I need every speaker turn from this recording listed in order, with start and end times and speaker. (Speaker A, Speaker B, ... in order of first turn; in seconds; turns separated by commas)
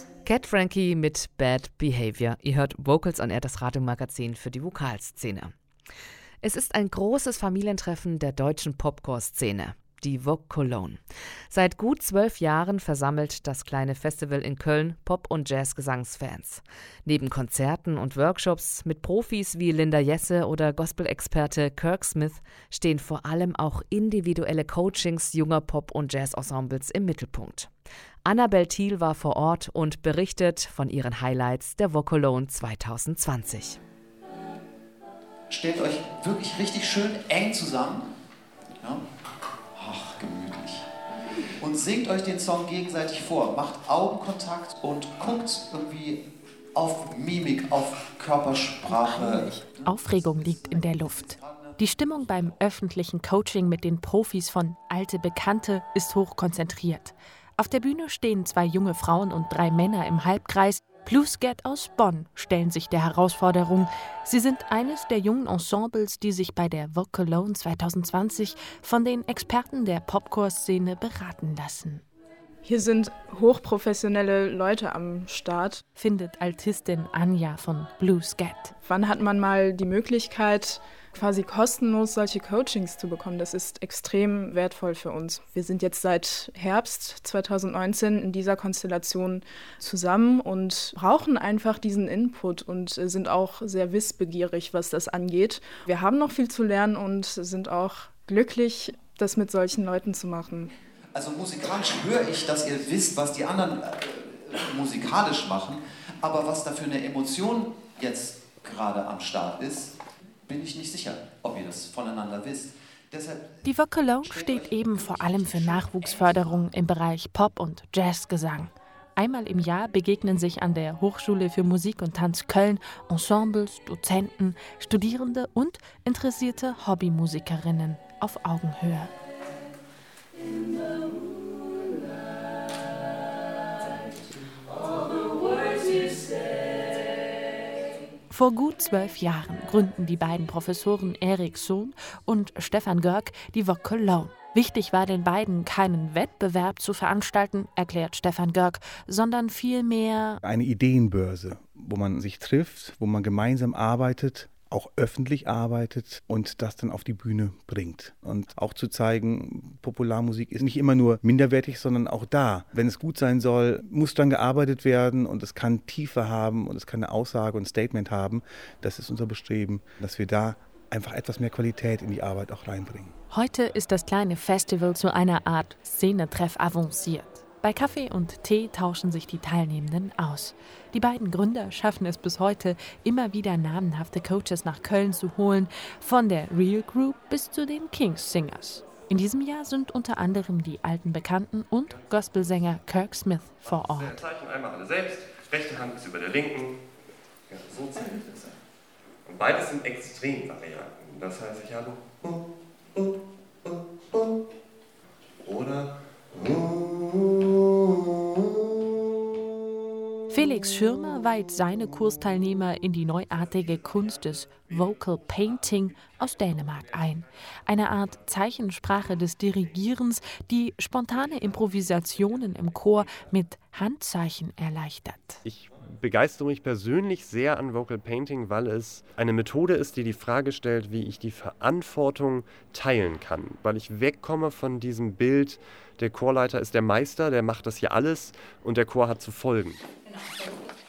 Speaker A: 0.2-5.5, Speaker A: 6.4-27.7, Speaker A: 28.2-33.8, Speaker B: 35.5-38.0, Speaker B: 39.8-40.9, Speaker B: 41.6-46.2, Speaker B: 46.7-51.8, Speaker C: 48.9-49.6, Speaker D: 49.8-72.0, Speaker C: 72.6-75.8, Speaker D: 76.0-78.7, Speaker C: 78.8-100.7, Speaker B: 101.1-109.9, Speaker B: 110.4-113.5, Speaker D: 113.6-129.1, Speaker B: 114.2-116.8, Speaker D: 138.3-150.4, Speaker E: 150.4-173.1, Speaker D: 173.3-194.2, Speaker F: 193.7-196.8, Speaker F: 197.5-198.5, Speaker F: 199.3-202.4, Speaker F: 205.4-207.4, Speaker D: 210.3-225.4, Speaker F: 225.4-239.8